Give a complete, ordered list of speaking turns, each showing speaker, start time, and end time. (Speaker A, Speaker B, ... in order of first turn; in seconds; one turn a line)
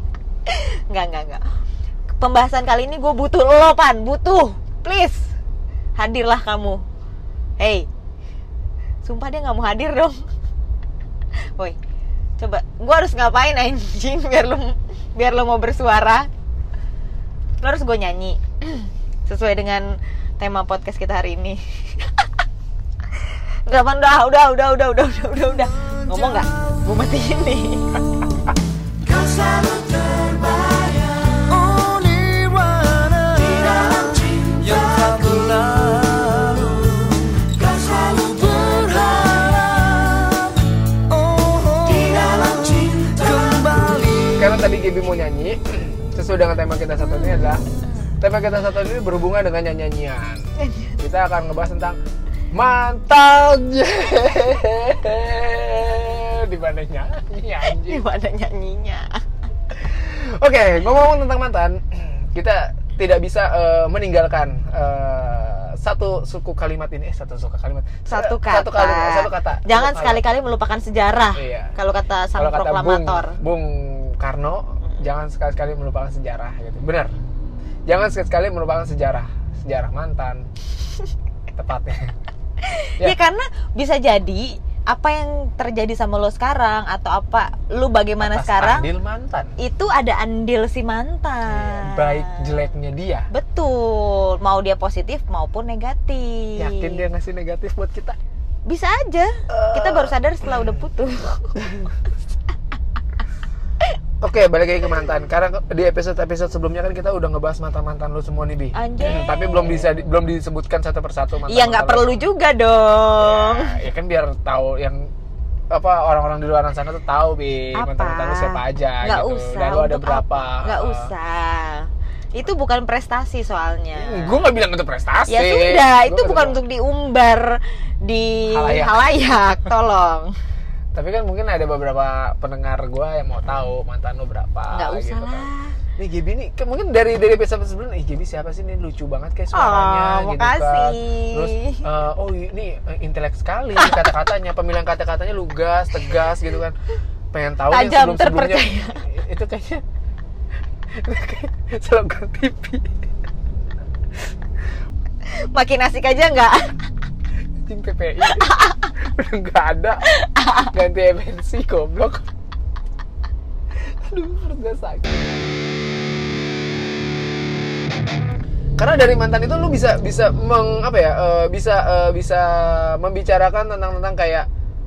Speaker A: 0.5-1.4
Speaker A: 2.1-5.3
Speaker A: 6.0-6.8
Speaker A: 7.6-7.9
Speaker A: 9.0-10.2
Speaker A: 12.4-16.3
Speaker A: 17.6-22.2
Speaker A: 23.2-28.0
Speaker B: 25.8-26.7
Speaker B: 27.9-44.5
Speaker C: 44.4-47.6
Speaker C: 48.2-50.4
Speaker A: 50.6-50.9
Speaker C: 51.0-52.0
Speaker C: 52.5-58.0
Speaker A: 57.7-59.2
Speaker C: 59.7-70.2
Speaker A: 68.1-73.4
Speaker C: 71.3-71.8
Speaker C: 72.4-77.1
Speaker C: 77.9-80.5
Speaker C: 81.5-82.1
Speaker A: 82.6-88.9
Speaker C: 88.2-89.5
Speaker A: 89.6-92.6
Speaker C: 91.5-93.3
Speaker A: 93.3-97.0
Speaker C: 96.6-98.2
Speaker A: 98.7-101.5
Speaker C: 99.5-100.6
Speaker C: 101.5-101.9
Speaker C: 104.2-112.2
Speaker A: 108.7-109.9
Speaker A: 111.5-113.8
Speaker C: 113.2-115.1
Speaker C: 115.7-121.1
Speaker A: 117.7-124.4
Speaker C: 124.0-126.6
Speaker A: 125.3-130.3
Speaker C: 128.5-129.1
Speaker C: 130.9-146.8
Speaker A: 134.7-135.7
Speaker A: 139.5-141.8
Speaker A: 143.8-144.0
Speaker C: 147.3-149.8
Speaker A: 147.7-149.0
Speaker C: 151.0-152.9
Speaker A: 155.5-156.8
Speaker C: 157.6-160.1
Speaker A: 158.3-158.9
Speaker A: 160.1-160.7
Speaker C: 160.6-162.2
Speaker C: 163.8-165.5
Speaker C: 168.8-174.5